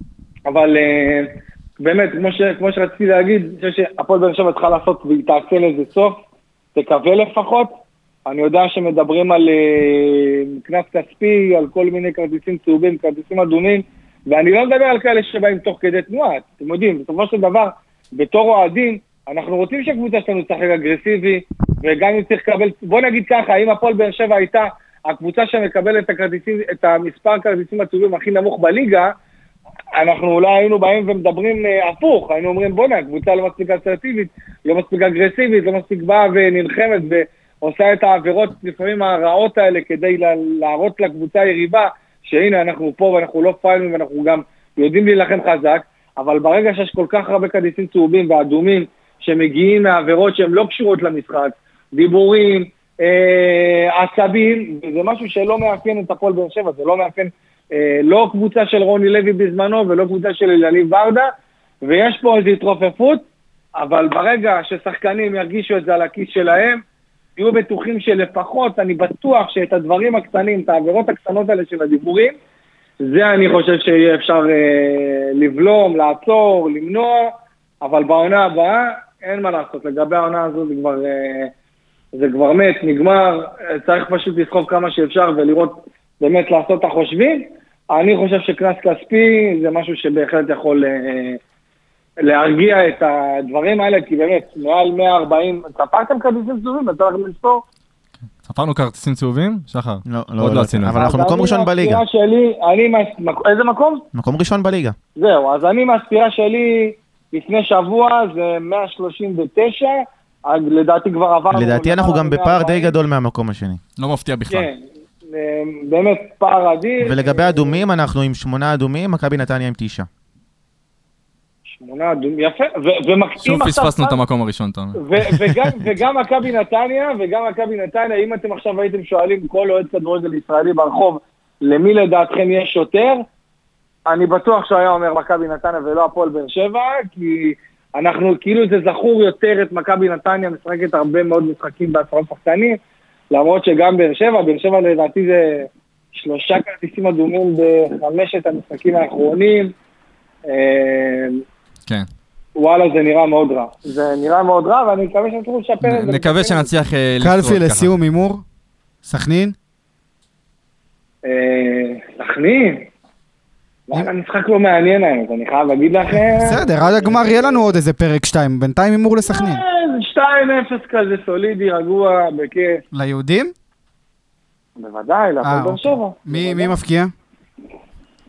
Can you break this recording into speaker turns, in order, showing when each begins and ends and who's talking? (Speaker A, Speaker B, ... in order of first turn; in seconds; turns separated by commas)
Speaker A: 0.5-6.2, Speaker A: 6.7-7.7, Speaker A: 8.2-29.1, Speaker A: 30.0-61.3, Speaker A: 61.8-63.2, Speaker A: 63.8-66.8, Speaker A: 67.3-72.3, Speaker A: 73.0-81.5, Speaker A: 82.1-91.4, Speaker A: 92.2-97.6, Speaker B: 98.4-101.0, Speaker C: 100.0-102.0, Speaker A: 100.9-104.0, Speaker C: 104.1-105.0, Speaker A: 105.2-113.0, Speaker C: 111.5-113.8, Speaker B: 114.0-114.7, Speaker A: 114.5-117.8, Speaker C: 117.0-120.1, Speaker A: 121.7-124.2, Speaker B: 123.4-126.0, Speaker A: 125.0-133.2, Speaker A: 134.1-142.8, Speaker A: 143.3-149.7, Speaker A: 150.4-151.4, Speaker A: 152.5-156.7, Speaker B: 155.8-157.9, Speaker D: 157.2-158.4, Speaker D: 159.0-159.6, Speaker A: 161.2-162.9, Speaker A: 163.9-167.7, Speaker D: 166.3-169.6, Speaker A: 169.3-172.8, Speaker D: 172.9-173.5, Speaker A: 174.8-176.8, Speaker D: 175.4-177.1